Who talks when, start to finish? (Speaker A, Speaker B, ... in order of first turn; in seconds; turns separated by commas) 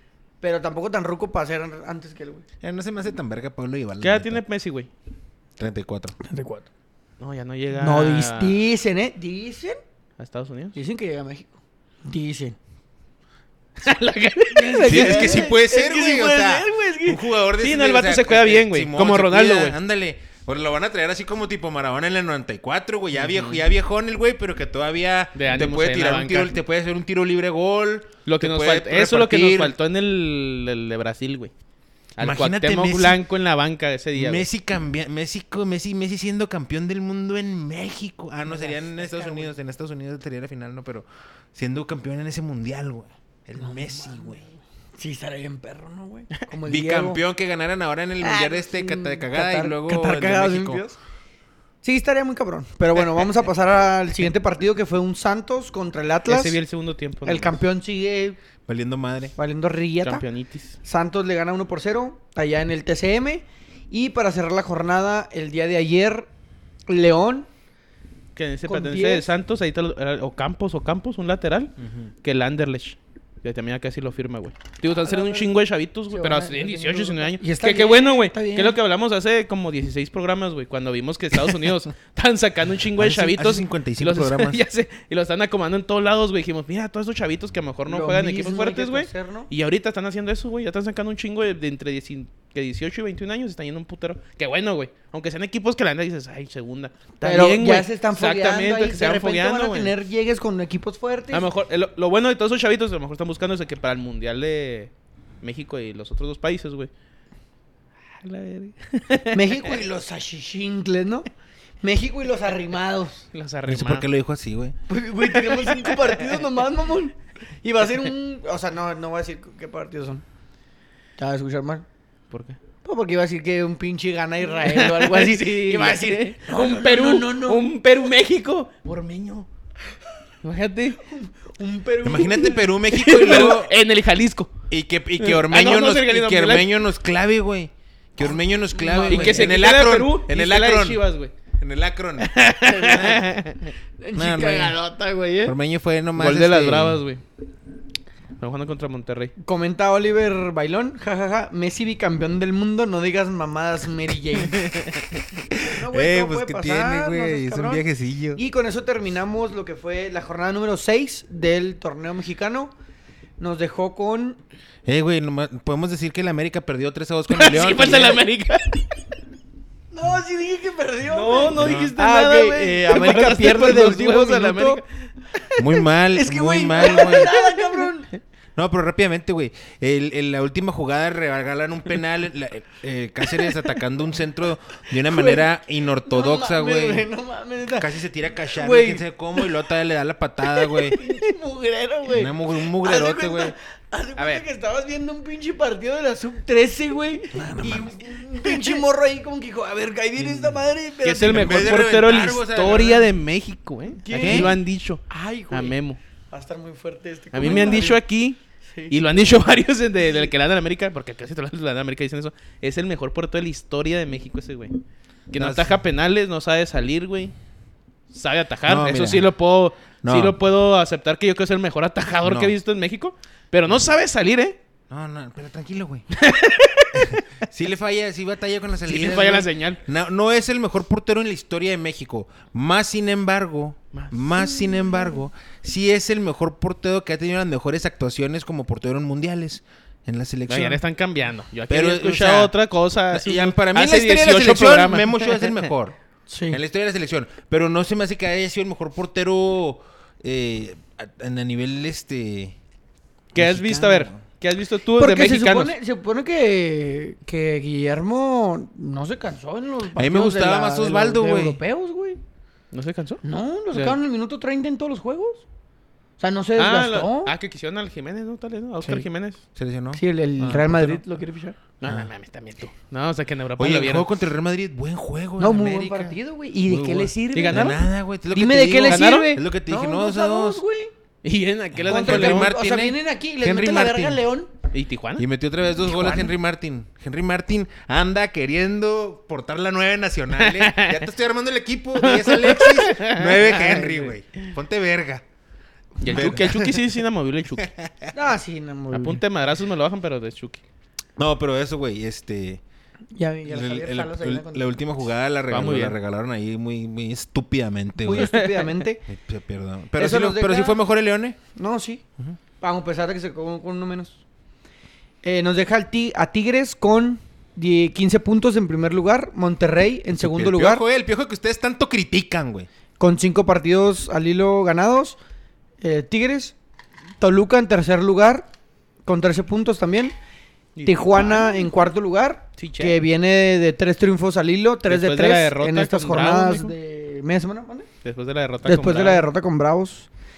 Speaker A: 0.4-2.5, Speaker B: 2.6-4.4, Speaker C: 4.0-4.9, Speaker B: 5.6-6.2, Speaker A: 6.2-6.7, Speaker C: 7.2-8.6, Speaker A: 7.7-9.8, Speaker C: 10.2-10.8, Speaker A: 10.7-12.6, Speaker C: 13.8-15.4, Speaker A: 14.5-17.2, Speaker B: 14.8-29.8, Speaker C: 17.6-19.8, Speaker C: 23.1-23.6, Speaker C: 25.4-26.6, Speaker C: 28.3-31.5, Speaker C: 32.2-34.5, Speaker B: 32.2-33.2, Speaker B: 34.1-44.4, Speaker A: 38.5-39.5, Speaker A: 43.6-44.4, Speaker A: 45.0-47.2, Speaker B: 46.7-50.8, Speaker A: 48.2-51.0, Speaker A: 51.8-56.6, Speaker C: 56.3-57.6, Speaker A: 57.2-58.4, Speaker B: 58.7-59.3, Speaker A: 59.4-60.2, Speaker C: 60.0-60.8, Speaker A: 60.8-66.3, Speaker A: 66.9-67.5, Speaker C: 68.4-100.0, Speaker A: 68.7-69.3, Speaker B: 71.8-72.1, Speaker A: 75.0-75.5, Speaker A: 76.1-78.8, Speaker B: 83.0-84.6, Speaker A: 87.9-89.5, Speaker A: 97.2-101.5, Speaker C: 101.3-104.9, Speaker C: 105.4-106.9, Speaker C: 108.2-109.8, Speaker A: 109.3-111.3, Speaker A: 111.8-113.3, Speaker C: 113.3-114.1, Speaker B: 113.7-114.8, Speaker A: 114.9-120.2, Speaker C: 115.3-116.4, Speaker A: 121.2-121.9, Speaker C: 122.3-122.6, Speaker A: 122.8-127.7, Speaker C: 124.6-129.5, Speaker C: 130.4-131.0, Speaker A: 131.1-132.6, Speaker B: 132.0-133.8, Speaker C: 132.9-134.5, Speaker B: 134.7-141.0, Speaker C: 135.2-136.7, Speaker A: 138.2-139.6, Speaker C: 138.9-141.3, Speaker B: 141.6-142.3, Speaker C: 142.2-143.7, Speaker A: 142.6-143.3, Speaker A: 144.0-145.6, Speaker B: 144.2-144.8, Speaker B: 145.4-147.0, Speaker C: 146.2-147.2, Speaker C: 148.4-149.3, Speaker A: 149.4-154.7, Speaker C: 154.6-155.0, Speaker B: 155.5-158.4, Speaker A: 155.6-157.8, Speaker A: 158.3-162.7, Speaker A: 163.4-164.4, Speaker B: 164.8-168.2, Speaker C: 167.3-168.8, Speaker A: 169.9-174.8, Speaker C: 171.1-175.1, Speaker B: 171.6-171.9, Speaker B: 175.6-177.3, Speaker A: 176.1-178.1, Speaker C: 176.9-177.9, Speaker B: 178.6-187.1, Speaker A: 185.0-185.5, Speaker A: 186.0-187.9, Speaker B: 187.8-191.0, Speaker A: 188.4-189.5, Speaker A: 190.6-201.8, Speaker B: 192.1-193.5, Speaker C: 194.2-194.4, Speaker B: 197.3-198.1, Speaker B: 200.2-200.5, Speaker C: 201.0-206.0, Speaker B: 201.3-203.1, Speaker A: 204.0-204.6, Speaker B: 204.1-204.6, Speaker A: 205.1-205.8, Speaker A: 206.3-208.0, Speaker C: 207.3-208.4, Speaker A: 208.7-209.5, Speaker C: 208.9-214.8, Speaker A: 210.0-210.3, Speaker C: 215.3-217.3, Speaker B: 215.3-215.8, Speaker C: 218.1-224.6, Speaker B: 218.7-219.3, Speaker B: 220.0-220.4, Speaker B: 222.2-222.6, Speaker B: 224.9-226.1, Speaker C: 226.1-227.2, Speaker B: 226.9-240.8, Speaker C: 228.9-229.8, Speaker C: 233.9-235.1, Speaker C: 240.5-245.7, Speaker B: 241.7-242.5, Speaker B: 243.1-246.0, Speaker A: 246.3-246.6, Speaker B: 246.5-252.6, Speaker C: 253.3-255.8, Speaker B: 253.4-254.2, Speaker A: 253.4-254.0, Speaker A: 255.0-262.2, Speaker B: 260.0-261.6, Speaker C: 262.7-264.0, Speaker A: 263.2-265.5, Speaker A: 266.2-267.3, Speaker C: 266.6-269.4, Speaker B: 269.6-270.7, Speaker A: 269.9-271.6, Speaker C: 270.6-271.0, Speaker C: 271.8-274.1, Speaker B: 271.9-272.1, Speaker B: 273.6-276.2, Speaker A: 275.4-277.8, Speaker B: 276.7-280.6, Speaker C: 277.3-277.8, Speaker A: 278.3-280.9, Speaker C: 278.8-279.3, Speaker C: 281.2-282.5, Speaker B: 281.8-284.2, Speaker A: 281.9-284.5, Speaker C: 284.7-285.3, Speaker B: 285.2-295.2, Speaker A: 285.8-286.3, Speaker C: 290.4-291.1, Speaker C: 292.0-294.5, Speaker C: 296.0-297.7, Speaker B: 296.0-296.8, Speaker B: 297.6-298.1, Speaker A: 298.1-299.2, Speaker C: 298.9-300.6, Speaker B: 301.2-302.6, Speaker A: 303.1-304.8, Speaker B: 303.5-308.4, Speaker C: 305.5-306.0, Speaker A: 308.0-309.1, Speaker C: 308.1-308.8, Speaker B: 309.1-311.4, Speaker A: 310.0-310.8, Speaker A: 311.6-312.0, Speaker A: 312.6-314.2, Speaker A: 315.2-320.8, Speaker B: 320.1-322.7, Speaker A: 323.0-325.2, Speaker A: 325.8-326.6, Speaker A: 327.2-328.5, Speaker A: 329.1-330.1, Speaker C: 330.8-331.8, Speaker A: 330.9-337.9, Speaker C: 332.6-333.0, Speaker C: 334.9-336.7, Speaker C: 338.0-339.3, Speaker A: 338.6-340.1